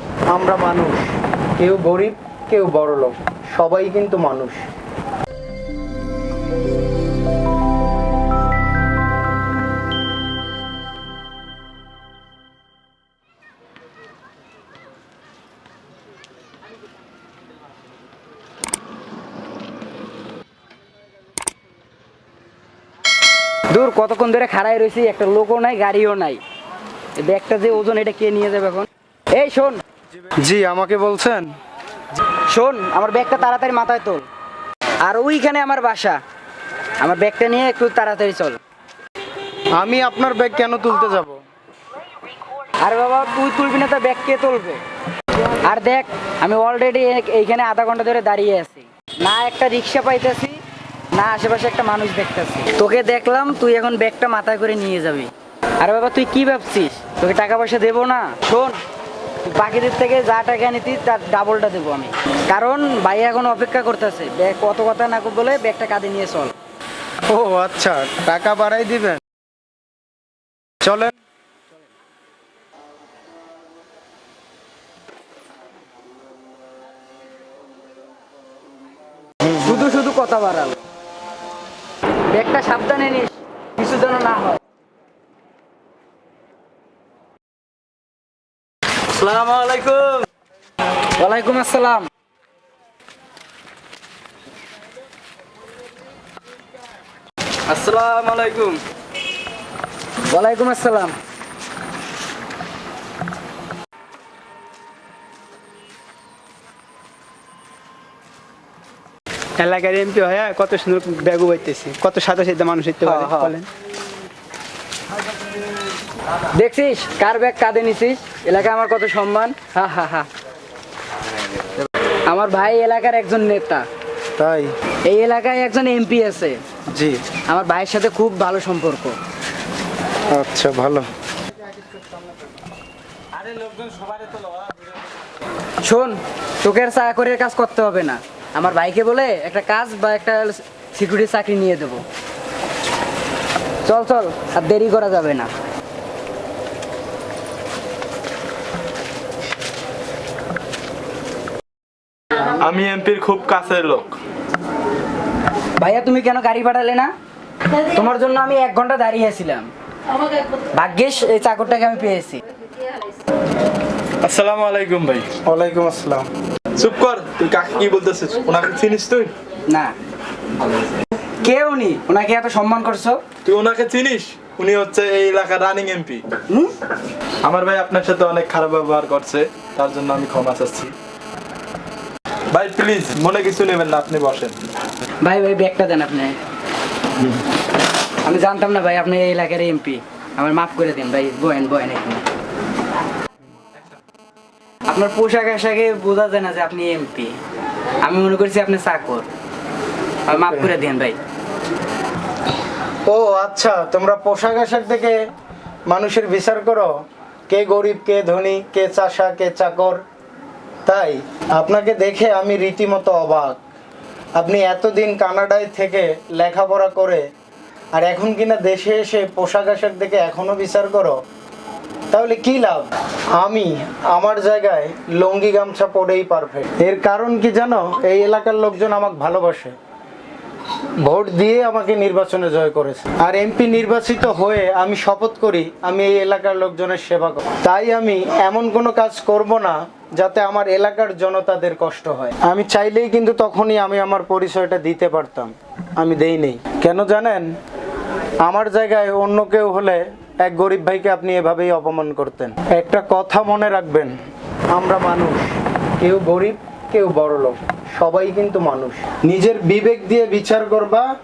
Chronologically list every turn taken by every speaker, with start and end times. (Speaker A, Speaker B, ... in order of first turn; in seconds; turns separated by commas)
Speaker A: 0.3-4.7, Speaker B: 23.7-26.4, Speaker B: 27.2-29.8, Speaker A: 30.1-31.5, Speaker B: 32.5-34.3, Speaker B: 35.0-36.2, Speaker B: 37.0-38.6, Speaker A: 39.8-41.4, Speaker B: 42.8-44.8, Speaker B: 45.6-50.6, Speaker B: 51.1-58.8, Speaker B: 59.5-66.5, Speaker A: 67.3-69.2, Speaker A: 70.8-71.1, Speaker B: 79.5-80.8, Speaker B: 82.3-84.6, Speaker B: 89.1-90.1, Speaker C: 89.3-90.2, Speaker B: 91.2-92.1, Speaker B: 97.7-98.8, Speaker B: 100.3-101.2, Speaker D: 109.6-113.7, Speaker B: 113.0-113.6, Speaker B: 116.5-120.3, Speaker B: 122.3-123.9, Speaker A: 124.4-124.7, Speaker B: 125.1-126.6, Speaker A: 126.9-127.2, Speaker B: 127.5-129.2, Speaker A: 130.3-131.1, Speaker C: 133.3-135.0, Speaker B: 135.8-142.1, Speaker B: 143.8-145.5, Speaker C: 152.4-154.2, Speaker B: 155.8-157.1, Speaker B: 157.8-159.7, Speaker B: 160.7-162.4, Speaker C: 164.2-165.3, Speaker A: 165.4-166.3, Speaker C: 166.8-169.3, Speaker B: 169.7-169.9, Speaker B: 171.4-173.2, Speaker C: 173.4-176.2, Speaker C: 177.4-180.9, Speaker C: 182.5-184.6, Speaker B: 185.2-186.4, Speaker B: 188.2-192.2, Speaker B: 194.9-197.4, Speaker B: 198.0-199.3, Speaker B: 200.3-201.2, Speaker A: 203.1-205.2, Speaker A: 205.9-206.9, Speaker A: 207.5-210.0, Speaker A: 210.9-213.6, Speaker A: 214.4-217.2, Speaker A: 217.9-221.2, Speaker A: 222.1-229.8, Speaker A: 231.0-247.5, Speaker A: 248.4-254.2, Speaker A: 254.7-261.1